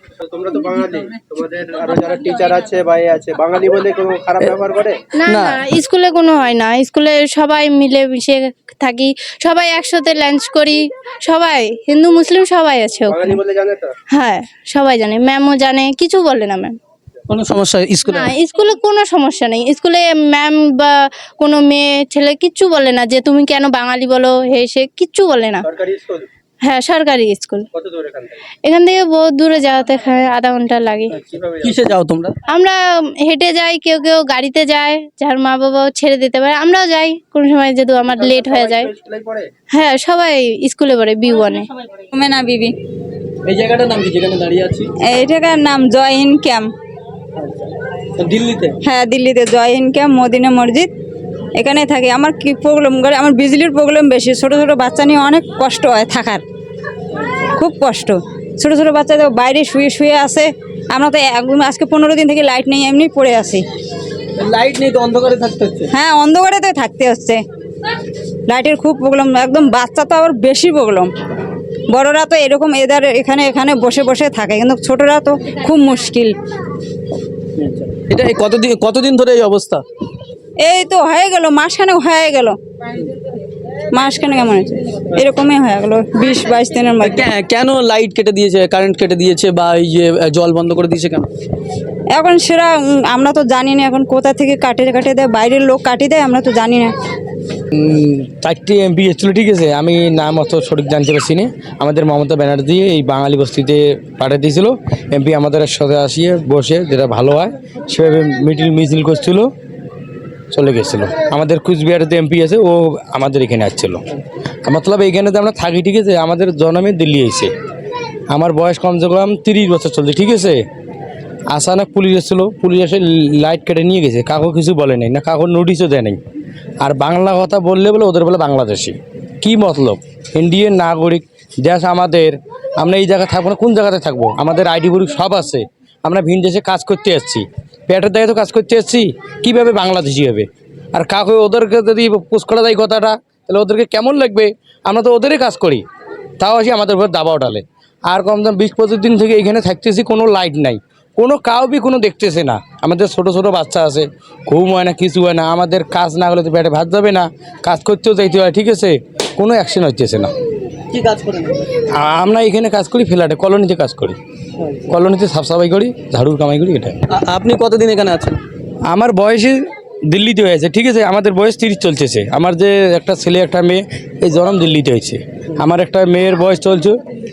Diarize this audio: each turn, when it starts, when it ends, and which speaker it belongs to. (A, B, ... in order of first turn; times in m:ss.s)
0:00.3-0:05.0 A
0:00.8-0:01.2 B
0:05.2-0:13.4 C
0:05.3-0:05.6 B
0:13.5-0:13.9 A
0:14.1-0:16.8 C
0:17.3-0:18.3 B
0:18.1-0:25.6 C
0:25.8-0:26.2 B
0:26.6-0:27.6 C
0:28.6-0:31.2 C
0:31.6-0:32.4 B
0:32.5-0:38.9 C
0:39.0-0:39.4 B
0:39.7-0:41.6 C
0:42.1-0:42.8 D
0:43.5-0:44.9 B
0:45.0-0:46.8 D
0:47.4-0:48.8 B
0:48.8-0:51.0 D
0:51.6-0:56.4 D
0:57.2-0:57.5 B
0:57.6-1:03.7 D
1:04.4-1:05.9 B
1:05.9-1:07.4 D
1:08.5-1:11.1 D
1:11.9-1:16.4 D
1:17.6-1:19.8 B
1:20.6-1:22.6 D
1:23.9-1:27.3 D
1:27.0-1:31.3 B
1:32.1-1:37.0 D
1:37.7-1:49.5 E
1:50.5-1:54.0 E
1:54.6-1:57.5 E
1:58.3-2:00.6 E
2:01.5-2:06.2 E
2:06.8-2:25.8 E
2:26.4-2:40.3 E
2:40.9-2:41.7 B
2:41.9-2:44.2 E
2:44.9-2:47.0 E
2:47.1-2:48.4 B
2:48.9-2:57.0 E